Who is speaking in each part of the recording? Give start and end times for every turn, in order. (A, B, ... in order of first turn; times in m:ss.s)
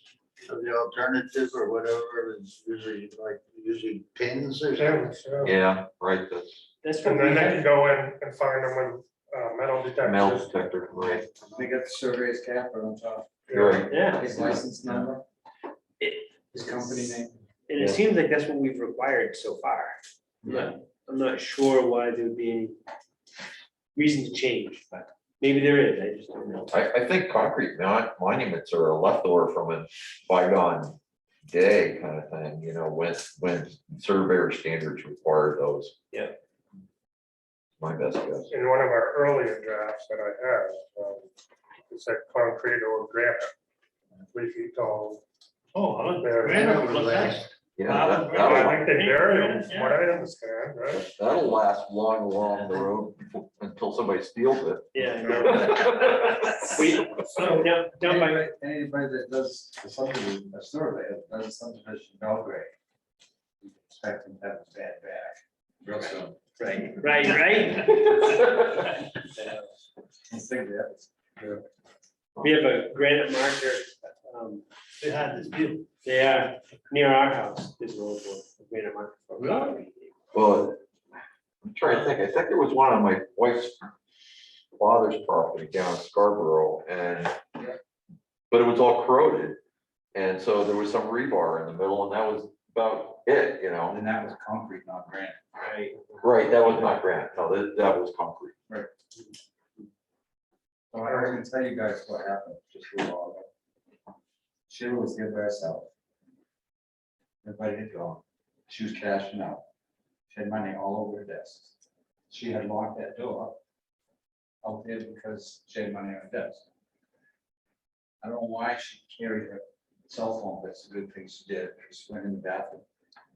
0:00.5-0:05.2 A
0:04.8-0:05.6 B
0:05.4-0:06.7 C
0:06.8-0:07.7 D
0:07.0-0:10.5 B
0:10.0-0:11.3 C
0:11.1-0:13.4 E
0:13.5-0:13.9 B
0:13.5-0:14.6 C
0:13.9-0:14.3 D
0:14.1-0:15.2 E
0:16.5-0:17.4 E
0:17.7-0:22.8 D
0:20.4-0:20.7 E
0:24.0-0:26.8 D
0:26.7-0:36.0 C
0:36.1-0:36.4 D
0:37.8-0:38.5 C
0:38.5-0:41.3 B
0:41.9-0:43.5 B
0:44.3-0:45.2 B
0:46.2-0:47.0 B
0:46.4-0:47.5 A
0:46.9-0:47.4 F
0:47.8-0:48.9 C
0:47.9-0:48.4 F
0:48.4-0:51.0 B
0:48.4-0:50.1 D
0:50.9-0:56.5 C
0:54.9-0:58.4 D
0:58.0-1:02.7 E
1:03.6-1:06.4 E
1:06.6-1:09.6 D
1:08.0-1:08.3 C
1:10.3-1:11.5 E
1:12.4-1:14.6 D
1:15.0-1:15.8 F
1:16.0-1:20.1 D
1:20.3-1:20.8 C
1:21.6-1:23.8 C
1:24.8-1:27.4 C
1:28.5-1:29.6 C
1:30.2-1:34.0 C
1:33.9-1:35.4 E
1:35.6-1:36.0 D
1:36.2-1:38.6 C
1:40.9-1:43.5 E
1:41.1-1:41.4 B
1:44.7-1:45.9 E
1:47.4-1:49.6 E
1:50.3-1:51.7 E
1:52.3-1:53.6 E
1:54.6-1:56.6 E
1:58.2-2:02.8 E